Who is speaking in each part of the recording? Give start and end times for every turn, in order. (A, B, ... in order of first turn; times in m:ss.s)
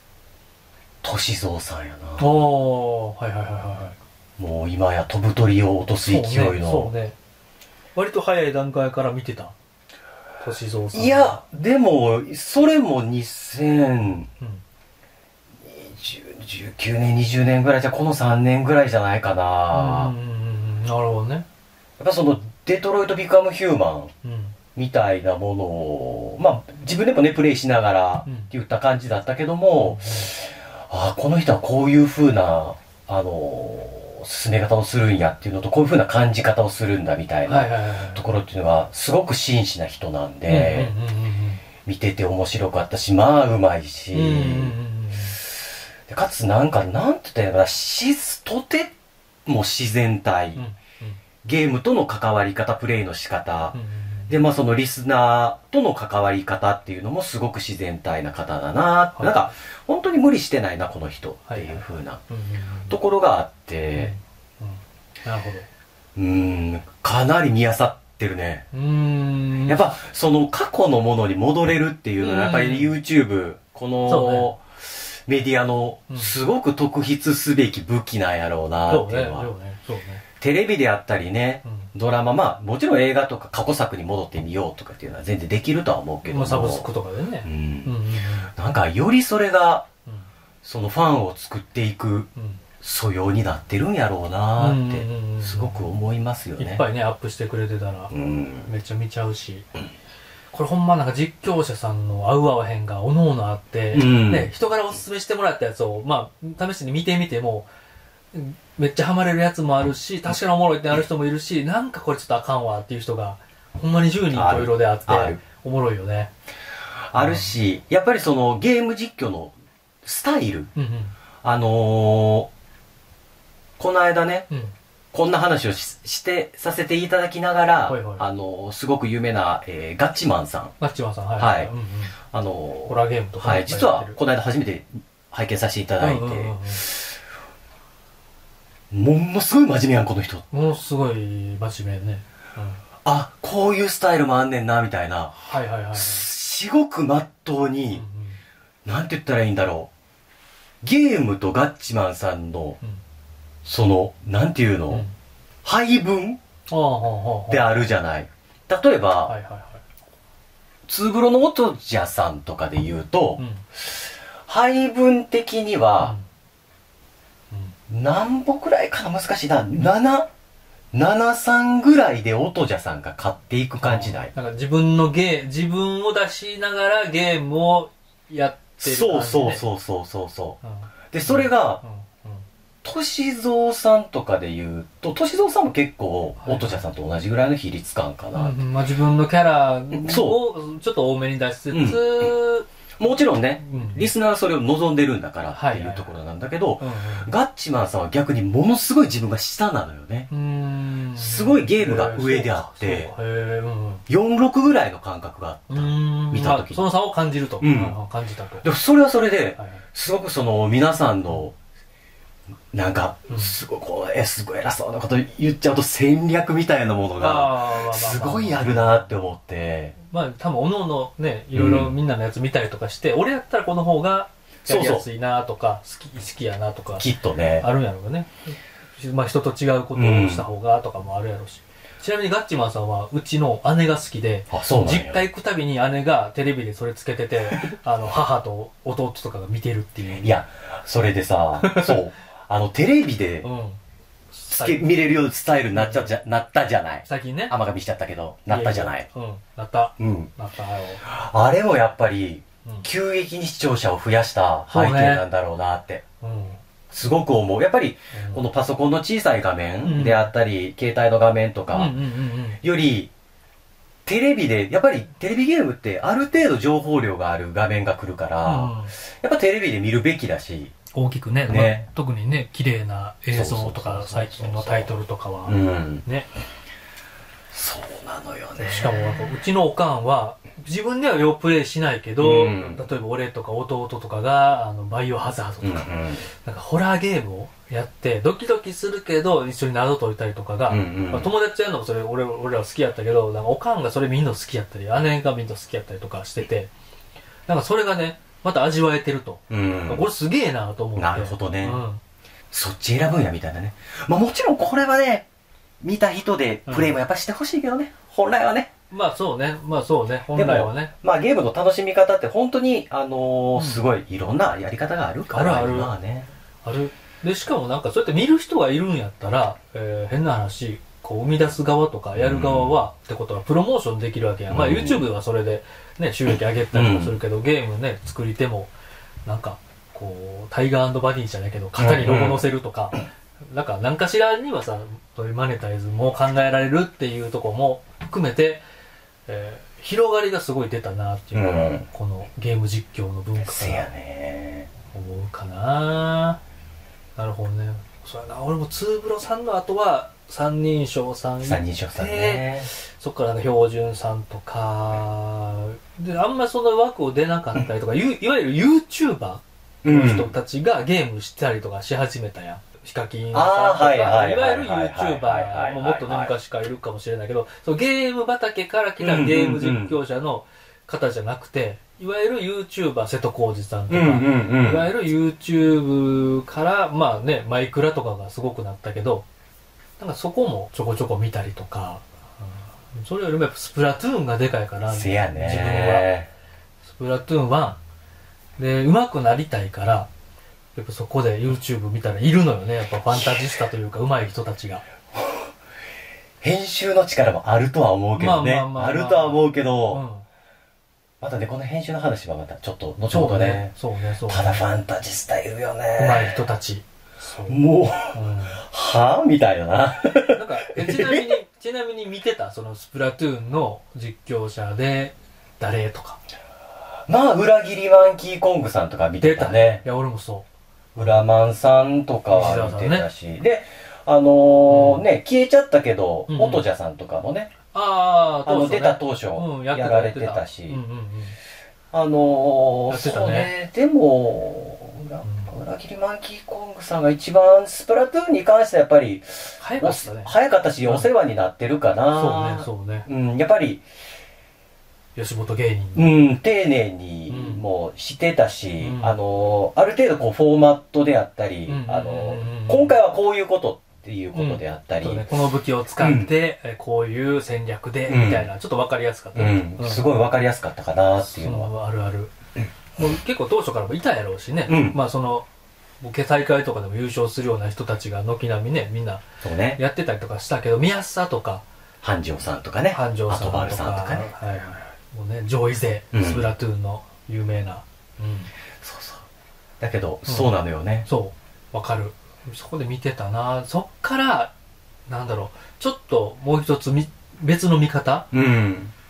0:01.0-0:02.3 A
0:02.2-0:04.0 B
0:04.4-0:06.9 A
0:06.0-0:07.2 B
0:07.9-0:09.5 B
0:10.4-0:11.4 B
0:10.9-0:14.3 A
0:15.6-0:20.1 A
0:19.7-0:21.4 B
0:22.0-0:24.1 A
0:24.2-0:24.6 B
0:24.7-0:40.9 A
0:28.2-0:28.5 B
0:29.8-0:30.3 B
0:37.5-0:38.2 B
0:40.5-0:41.6 B
0:41.8-0:44.8 A
0:44.1-0:45.4 B
0:45.4-0:48.9 A
0:49.4-0:50.6 A
0:50.6-0:51.2 B
0:51.4-0:53.8 A
0:53.7-0:54.3 B
0:54.3-1:02.2 A
0:59.2-0:59.5 B
1:01.5-1:03.0 B
1:02.9-1:04.1 A
1:03.9-1:05.7 B
1:06.2-1:08.7 A
1:08.7-1:09.9 B
1:09.7-1:19.5 A
1:12.2-1:12.9 B
1:14.0-1:14.5 B
1:16.1-1:16.4 B
1:18.9-1:20.2 B
1:20.4-1:26.9 A
1:21.6-1:21.9 B
1:26.2-1:28.5 B
1:27.4-1:29.9 A
1:30.6-1:32.3 A
1:32.4-1:32.6 B
1:32.8-1:36.8 A
1:34.6-1:35.9 B
1:36.6-1:38.1 B
1:38.1-1:38.7 A
1:38.6-1:39.7 B
1:40.5-1:47.7 B
1:43.9-1:44.5 A
1:48.3-1:56.3 B
1:54.3-1:55.4 A
1:57.1-2:00.7 A
1:57.2-1:57.5 B
2:00.7-2:01.1 B
2:01.4-2:02.5 A
2:03.8-2:04.5 A
2:05.1-2:10.7 A
2:07.8-2:08.2 B
2:10.8-2:12.2 B
2:11.4-2:11.7 A
2:12.3-2:17.1 A
2:12.9-2:14.2 B
2:16.0-2:16.9 B
2:18.9-2:20.4 A
2:20.5-2:22.8 B
2:23.0-2:25.4 A
2:25.4-2:26.3 B
2:25.9-2:28.0 A
2:27.9-2:28.4 B
2:28.8-2:29.9 A
2:30.8-2:32.8 A
2:33.6-2:35.0 A
2:35.6-2:36.4 A
2:36.7-2:37.7 B
2:37.5-2:39.3 A
2:39.3-2:39.8 B
2:40.9-2:46.1 A
2:43.4-2:43.6 B
2:47.5-2:47.8 B
2:47.9-2:50.3 A
2:50.9-2:54.3 A
2:53.8-2:59.6 B
2:58.8-3:00.6 A
3:00.6-3:02.4 B
3:01.1-3:01.8 A
3:02.8-3:08.6 A
3:06.4-3:06.8 B
3:08.3-3:12.6 B
3:09.9-3:10.4 A
3:11.7-3:12.3 A
3:13.0-3:20.3 A
3:13.6-3:14.1 B
3:15.5-3:16.1 B
3:16.8-3:17.3 B
3:20.3-3:24.0 B
3:21.2-3:23.1 A
3:24.1-3:26.8 A
3:25.7-3:28.7 B
3:27.6-3:28.0 A
3:28.6-3:31.5 A
3:29.6-3:29.8 B
3:32.7-3:39.9 A
3:33.3-3:33.5 B
3:37.2-3:39.1 B
3:40.1-3:47.1 B
3:41.5-3:41.9 A
3:44.6-3:45.0 A
3:47.0-3:47.7 A
3:47.6-4:00.4 B
3:49.9-3:50.4 A
3:54.5-3:55.2 A
4:00.2-4:03.5 A
4:01.6-4:02.0 B
4:03.4-4:03.8 B
4:04.3-4:04.8 B
4:04.5-4:09.1 A
4:05.7-4:06.1 B
4:07.0-4:07.6 B
4:08.5-4:11.0 B
4:10.0-4:10.3 A
4:11.0-4:16.0 A
4:14.7-4:15.2 B
4:16.2-4:16.6 B
4:16.9-4:22.0 A
4:18.1-4:18.4 B
4:19.8-4:20.3 B
4:21.7-4:22.6 B
4:22.6-4:23.1 A
4:24.0-4:30.7 A
4:28.4-4:29.0 B
4:30.9-4:36.3 B
4:31.5-4:31.8 A
4:33.3-4:34.9 A
4:35.5-4:36.0 A
4:37.5-4:39.3 A
4:38.6-4:56.7 B
4:42.2-4:42.8 A
4:45.6-4:46.2 A
4:50.7-4:51.3 A
4:57.5-5:02.0 B
4:59.5-5:00.0 A
5:01.0-5:01.8 A
5:02.5-5:05.3 A
5:05.8-5:08.7 A
5:06.7-5:07.0 B
5:08.9-5:10.9 B
5:10.3-5:16.3 A
5:13.5-5:13.8 B
5:15.3-5:15.9 B
5:16.6-5:28.7 B
5:22.1-5:22.8 A
5:24.5-5:25.1 A
5:26.3-5:27.2 A
5:29.2-5:38.6 B
5:31.8-5:32.4 A
5:39.3-5:43.9 B
5:41.3-5:41.8 A
5:43.4-5:44.7 A
5:44.9-5:46.4 B
5:47.2-6:19.2 B
5:51.4-5:52.7 A
5:59.8-6:00.3 A
6:03.3-6:06.3 A
6:09.0-6:10.0 A
6:13.9-6:14.9 A
6:20.0-6:26.1 B
6:24.9-6:26.3 A
6:26.8-6:27.8 B
6:28.6-6:30.1 B
6:30.8-6:34.8 B
6:33.1-6:33.5 A
6:35.1-6:35.5 A
6:36.4-6:40.0 A
6:38.2-6:40.2 B
6:41.2-6:43.7 A
6:43.1-6:44.6 B
6:44.2-6:46.4 A
6:46.0-6:48.6 B
6:47.5-6:51.3 A
6:50.3-6:56.2 B
6:57.1-6:59.8 A
6:59.2-7:01.2 B
7:01.0-7:07.5 A
7:02.3-7:03.1 B
7:04.7-7:05.0 B
7:06.3-7:06.6 B
7:07.7-7:11.4 B
7:08.4-7:10.8 A
7:11.9-7:23.8 A
7:12.9-7:13.5 B
7:15.2-7:15.5 B
7:19.6-7:21.1 B
7:22.1-7:23.1 B
7:25.2-7:26.2 B
7:26.0-7:35.2 A
7:27.3-7:27.6 B
7:28.8-7:29.1 B
7:31.6-7:33.0 B
7:34.3-7:40.0 B
7:36.0-7:36.3 A
7:38.1-7:38.5 A
7:39.3-7:41.7 A
7:41.2-7:42.3 B
7:43.0-7:45.5 B
7:44.7-7:45.0 A
7:46.0-7:49.2 B
7:49.4-7:49.8 A
7:49.8-7:51.6 B
7:52.0-7:54.3 A
7:52.9-7:58.5 B
7:56.1-7:56.5 A
7:58.8-7:59.2 A
7:59.8-8:01.1 A
8:01.0-8:04.5 B
8:05.1-8:08.3 B
8:08.3-8:08.9 A